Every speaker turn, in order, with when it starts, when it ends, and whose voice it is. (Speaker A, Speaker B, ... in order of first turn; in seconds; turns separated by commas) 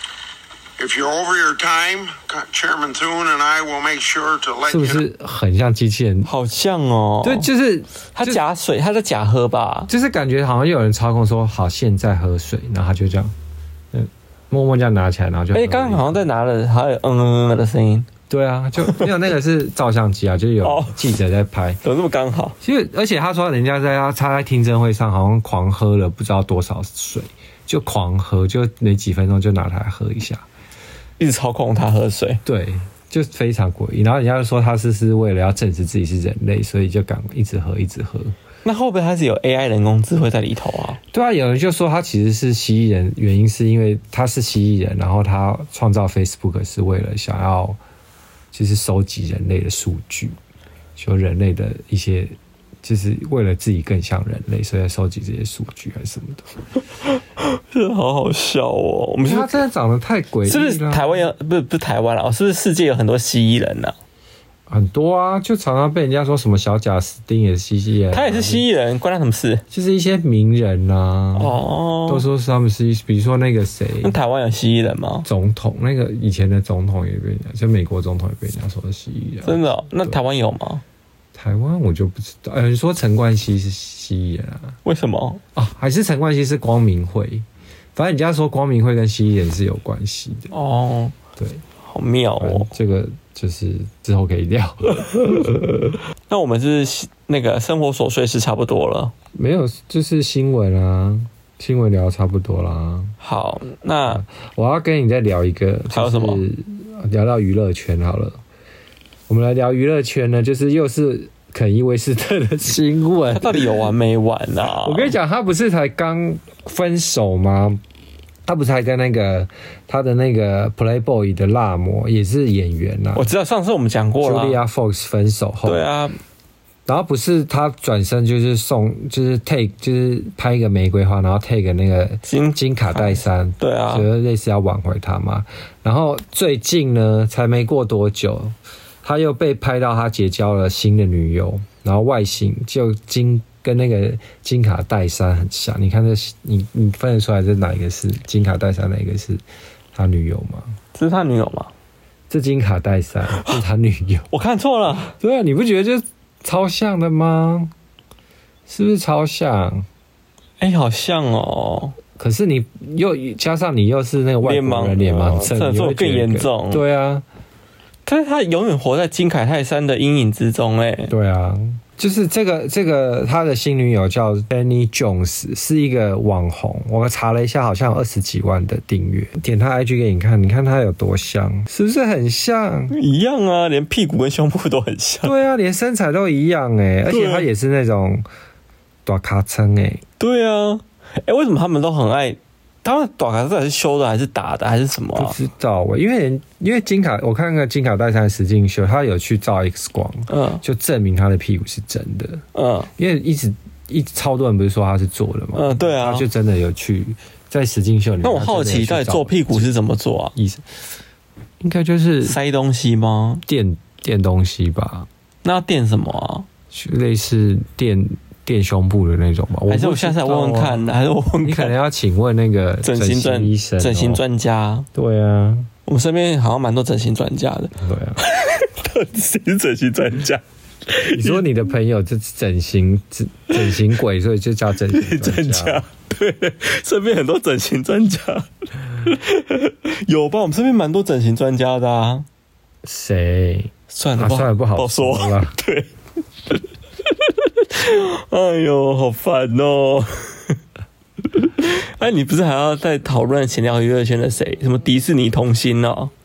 Speaker A: 0.8-5.0, Speaker B: 4.7-6.3, Speaker C: 6.2-7.5, Speaker B: 7.2-8.4, Speaker C: 8.1-9.9, Speaker B: 9.9-13.3, Speaker B: 13.9-16.2, Speaker C: 15.5-18.1, Speaker B: 18.3-21.8, Speaker C: 20.6-21.0, Speaker C: 21.8-22.6, Speaker B: 22.6-30.4, Speaker C: 31.2-32.4, Speaker B: 32.5-38.4, Speaker C: 38.6-41.0, Speaker B: 41.1-47.8, Speaker B: 48.5-50.4, Speaker B: 51.0-56.5, Speaker C: 57.1-59.6, Speaker B: 59.2-61.2, Speaker C: 60.5-63.9, Speaker B: 64.7-68.6, Speaker C: 68.1-69.6, Speaker B: 69.7-74.2, Speaker C: 71.3-72.2, Speaker C: 74.0-75.3, Speaker B: 75.2-80.2, Speaker C: 79.4-80.8, Speaker B: 81.3-84.8, Speaker C: 84.8-85.4, Speaker B: 85.5-90.5, Speaker C: 90.5-91.1, Speaker B: 91.4-91.6, Speaker C: 91.8-92.7, Speaker B: 92.4-96.0, Speaker C: 96.3-99.1, Speaker B: 99.3-103.2, Speaker C: 103.2-104.2, Speaker B: 104.1-108.4, Speaker C: 105.9-106.4, Speaker B: 109.3-113.7, Speaker C: 113.3-115.1, Speaker B: 114.8-117.8, Speaker B: 118.5-123.3, Speaker C: 123.1-124.6, Speaker B: 124.2-125.8, Speaker C: 125.6-126.2, Speaker B: 126.9-150.8, Speaker C: 132.3-134.1, Speaker C: 150.9-151.7, Speaker B: 152.3-154.3, Speaker C: 154.3-155.1, Speaker B: 155.2-157.7, Speaker B: 158.7-159.8, Speaker C: 160.6-161.9, Speaker B: 162.2-167.2, Speaker C: 164.4-166.8, Speaker C: 168.1-171.1, Speaker B: 171.1-182.9, Speaker C: 182.9-185.3, Speaker B: 185.2-188.2, Speaker C: 187.1-187.5, Speaker B: 189.0-190.0, Speaker C: 190.2-195.4, Speaker B: 195.2-202.4, Speaker C: 200.3-200.6, Speaker C: 202.5-202.9, Speaker B: 203.0-209.7, Speaker C: 205.5-206.2, Speaker C: 208.2-210.3, Speaker B: 210.3-210.7, Speaker B: 211.6-212.4, Speaker C: 212.2-213.4, Speaker B: 213.4-215.1, Speaker C: 215.4-216.5, Speaker B: 216.7-220.8, Speaker C: 219.7-221.7, Speaker B: 221.4-224.2, Speaker C: 222.8-224.9, Speaker B: 224.9-225.7, Speaker C: 225.8-231.4, Speaker B: 227.8-228.2, Speaker B: 231.1-235.8, Speaker C: 234.9-242.2, Speaker B: 242.8-245.6, Speaker C: 243.9-245.9, Speaker C: 247.2-250.6, Speaker C: 251.3-256.1